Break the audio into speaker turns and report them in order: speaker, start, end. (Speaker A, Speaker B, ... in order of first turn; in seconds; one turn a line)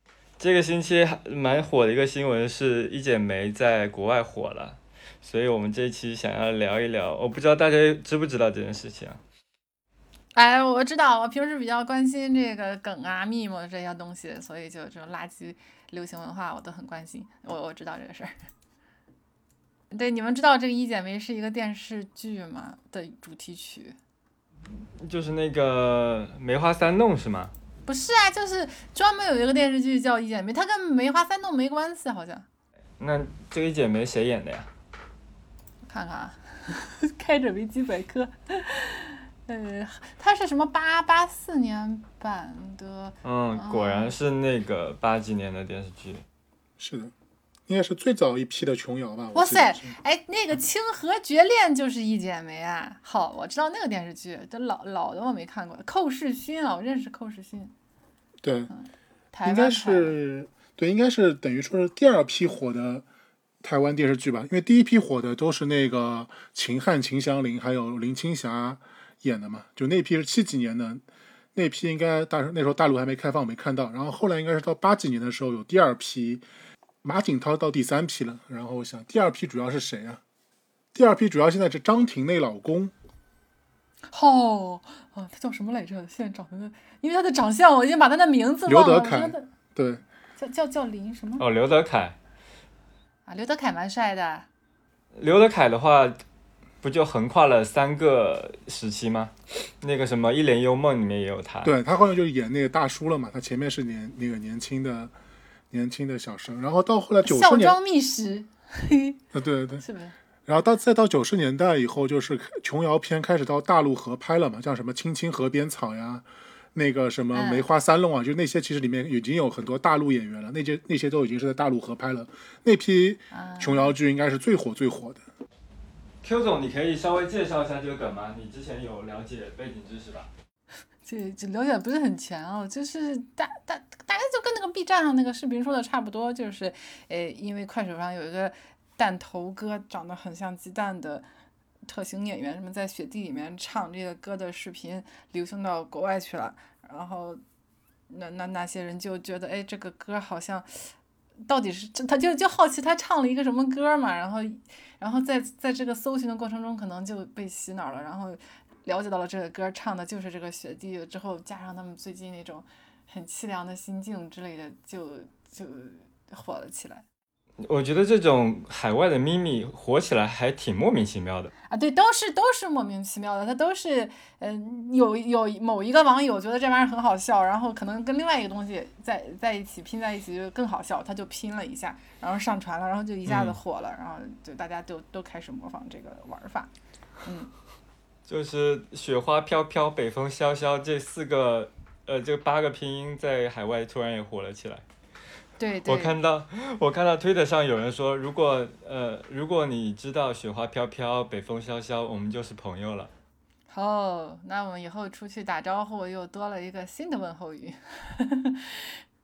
Speaker A: 0.4-9.2
Speaker B: 10.3-18.3
Speaker B: 19.9-24.0
Speaker A: 25.0-27.5
Speaker B: 27.9-32.5
Speaker A: 33.0-34.7
Speaker B: 35.9-44.1
Speaker A: 43.2-46.2
Speaker C: 46.8-47.1
Speaker C: 47.7-49.9
Speaker B: 49.3-57.7
Speaker C: 58.4-58.7
Speaker B: 58.7-60.2
Speaker C: 59.5-63.0
Speaker C: 63.6-71.0
Speaker C: 71.5-76.5
Speaker C: 77.0-80.2
Speaker C: 80.9-82.9
Speaker B: 84.1-89.5
Speaker C: 88.7-90.0
Speaker B: 90.4-91.5
Speaker A: 91.4-92.2
Speaker B: 93.3-94.5
Speaker A: 95.2-96.2
Speaker A: 96.8-101.7
Speaker C: 101.6-105.1
Speaker C: 105.7-107.8
Speaker B: 107.2-109.2
Speaker C: 109.3-109.8
Speaker B: 109.8-110.2
Speaker C: 110.5-125.2
Speaker B: 117.3-117.7
Speaker B: 123.3-124.0
Speaker A: 126.2-130.3
Speaker B: 131.1-141.3
Speaker B: 141.9-147.4
Speaker B: 148.1-150.9
Speaker B: 151.5-167.1
Speaker A: 167.7-171.5
Speaker B: 171.7-186.7
Speaker A: 183.3-183.6
Speaker B: 187.2-187.5
Speaker A: 188.3-194.8
Speaker B: 195.6-196.2
Speaker A: 195.9-203.1
Speaker B: 203.7-208.8